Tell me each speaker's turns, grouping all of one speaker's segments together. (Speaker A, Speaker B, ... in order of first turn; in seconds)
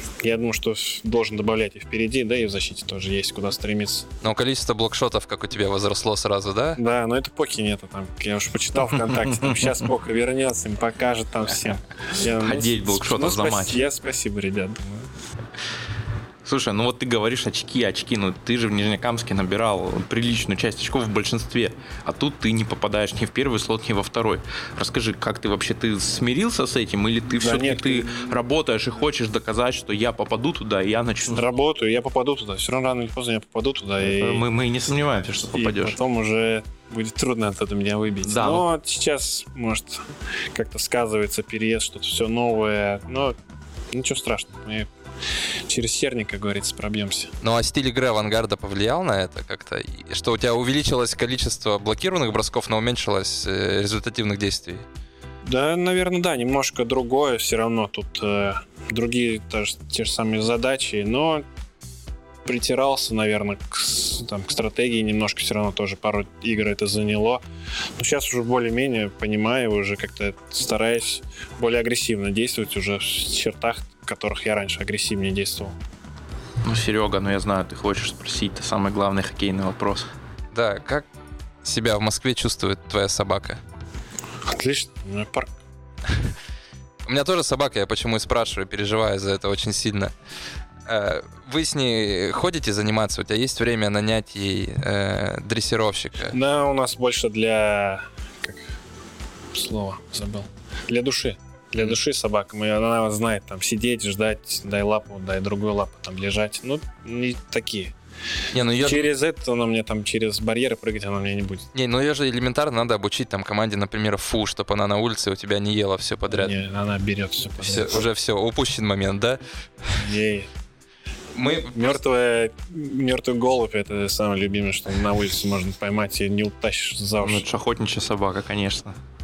Speaker A: 0.2-4.0, 6.8-15.1, 27.4-28.3, 31.3-34.4, 35.5-43.4, 43.9-44.9, 45.7-47.3, 55.4-61.4, 62.4-67.4, 68.0-75.7, 84.4-85.5, 96.3-98.7, 99.5-107.9, 108.8-111.7, 116.3-118.1, 119.9-120.5, 121.4-127.4
Speaker B: 4.2-6.8, 47.4-54.8, 80.5-81.0, 81.6-83.6, 87.1-90.1, 90.9-96.4, 108.5-109.1, 111.7-116.5, 117.6-119.4, 121.3-122.0
Speaker C: 9.3-9.7, 12.2-13.8, 16.4-31.5, 34.0-36.0, 38.2-38.7, 76.6-80.0, 127.2-128.9